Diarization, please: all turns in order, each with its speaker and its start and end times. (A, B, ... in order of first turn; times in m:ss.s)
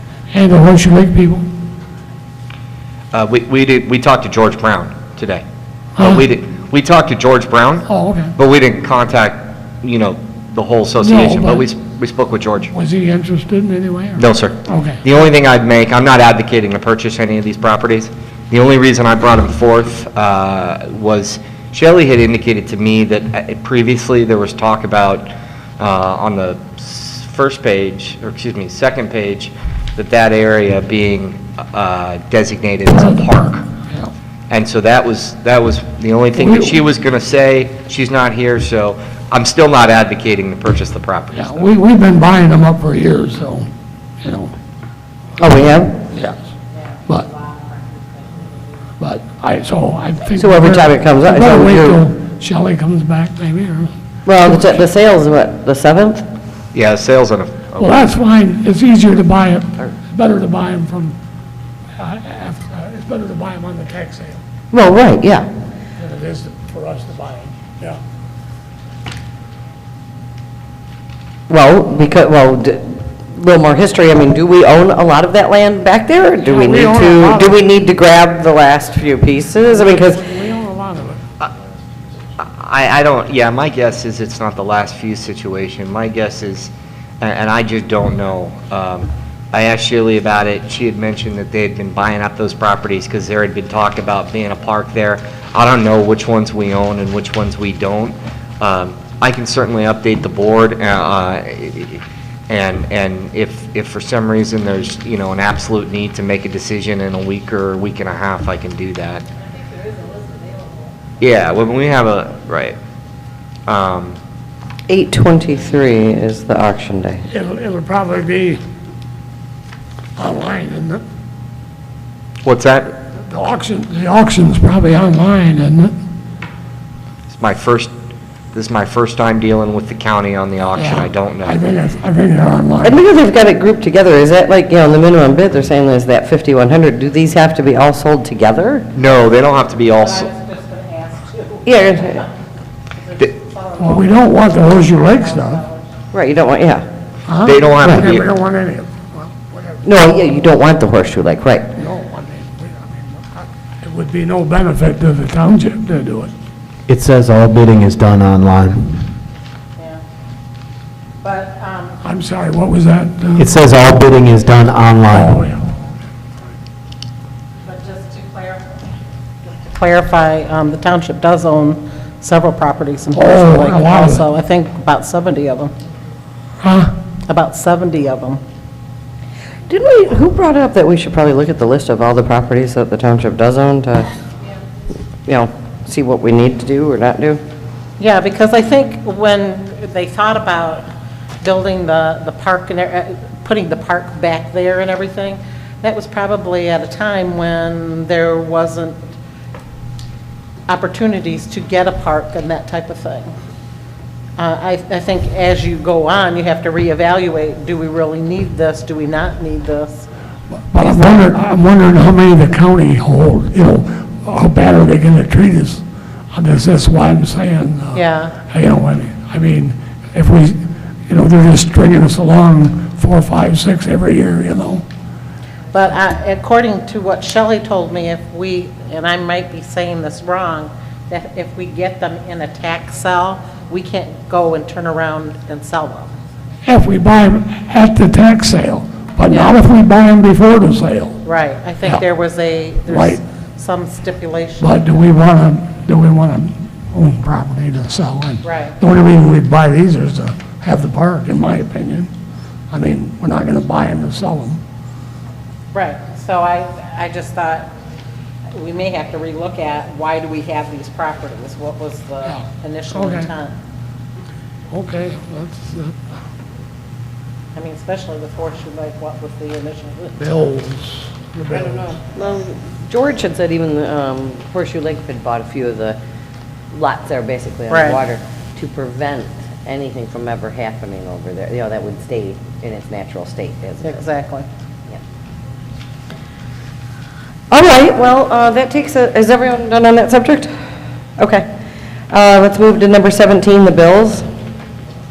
0:00.3-0:01.5 A
0:03.1-0:05.4 B
0:06.0-0:06.2 A
0:06.0-0:12.7 B
0:07.9-0:08.4 A
0:11.0-0:11.7 A
0:12.7-0:15.0 A
0:14.2-0:33.7 B
0:34.5-0:41.7 B
0:36.4-0:36.8 A
0:41.4-0:43.7 A
0:44.2-0:44.6 A
0:45.4-0:46.0 C
0:46.1-0:46.5 A
0:46.8-0:48.7 D
0:49.0-0:54.8 A
0:50.4-0:52.0 C
0:54.3-0:56.3 C
0:56.7-0:58.0 B
0:57.8-1:01.2 A
1:02.0-1:04.4 A
1:04.7-1:05.5 C
1:06.0-1:08.0 A
1:11.5-1:20.2 C
1:16.4-1:17.6 A
1:19.6-1:21.2 A
1:22.4-1:49.2 B
1:49.5-1:50.9 D
1:51.2-1:52.8 B
1:53.7-1:54.2 B
1:54.9-1:57.2 C
1:57.3-1:58.6 A
2:00.2-2:01.0 A
2:02.4-2:03.0 B
2:03.2-2:06.0 A
2:07.3-2:07.9 B
2:08.5-2:11.6 B
2:10.8-2:13.0 A
2:12.8-2:18.9 C
2:19.0-2:20.3 B
2:20.0-2:22.3 D
2:21.6-2:22.3 C
2:23.0-2:25.9 D
2:23.8-2:25.6 A
2:26.1-2:26.8 C
2:27.3-2:29.9 A
2:27.4-2:28.3 B
2:29.8-2:31.7 C
2:31.8-2:36.3 A
2:36.9-2:39.1 E
2:39.8-2:40.0 D
2:41.2-2:42.0 D
2:42.0-2:43.6 A
2:43.4-2:45.4 E
2:45.1-2:45.8 A
2:47.6-2:48.9 D
2:49.4-2:55.7 D
2:53.1-2:54.3 A
2:56.6-2:56.9 A
2:57.3-2:58.4 D
2:59.7-3:04.1 C
3:05.3-3:07.4 C
3:08.0-3:10.9 D
3:11.4-3:19.0 D
3:20.7-3:23.3 D
3:24.4-3:30.1 D
3:30.7-3:44.8 A
3:37.9-3:38.4 D
3:45.7-3:56.2 D
3:56.6-4:01.2 A
3:59.3-3:59.6 D
4:01.2-4:04.8 D
4:02.9-4:03.2 A
4:04.6-4:12.1 A
4:08.4-4:08.8 D
4:12.7-4:14.6 A
4:15.7-4:17.7 D
4:18.5-4:23.5 D
4:22.3-4:23.3 A
4:24.7-4:26.1 A
4:27.6-4:30.2 D
4:30.2-4:32.0 A
4:31.5-4:36.0 C
4:36.7-4:44.0 C
4:37.7-4:38.0 D
4:43.8-4:44.5 D
4:47.5-4:50.5 C
4:51.2-4:51.5 C
4:52.1-4:54.3 C